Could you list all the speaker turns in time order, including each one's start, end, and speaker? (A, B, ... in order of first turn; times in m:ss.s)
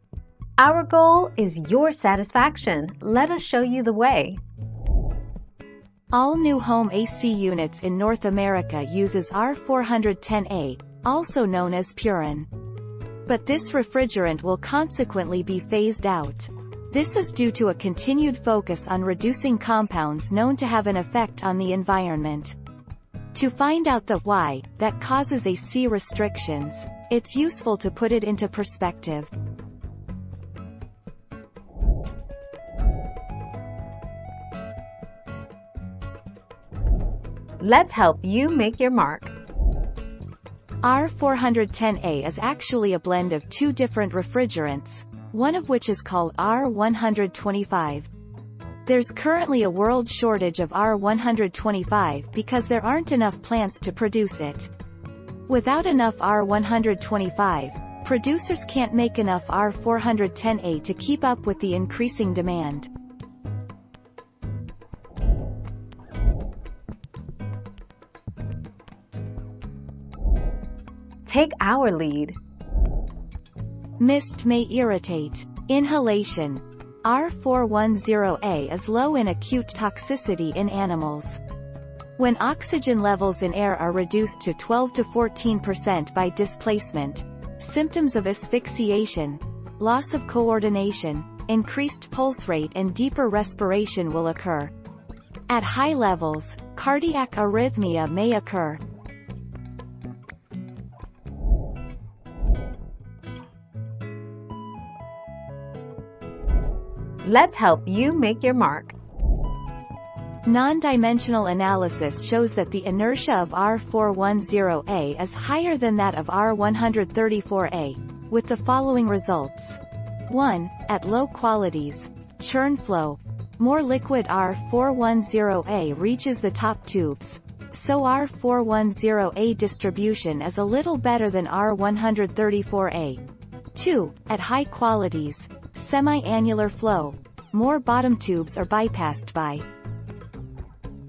0:00.6-0:04.4 A
0:06.1-0:12.5 B
0:13.3-0:22.6 B
0:23.3-0:29.3 B
0:37.6-0:39.3 A
0:40.8-0:48.1 B
0:48.9-0:54.7 B
0:55.5-1:02.9 B
1:11.2-1:12.4 A
1:14.0-1:21.4 B
1:22.2-1:34.7 B
1:35.5-1:38.8 B
1:47.2-1:48.9 A
1:50.5-2:13.2 B
2:13.7-2:19.6 B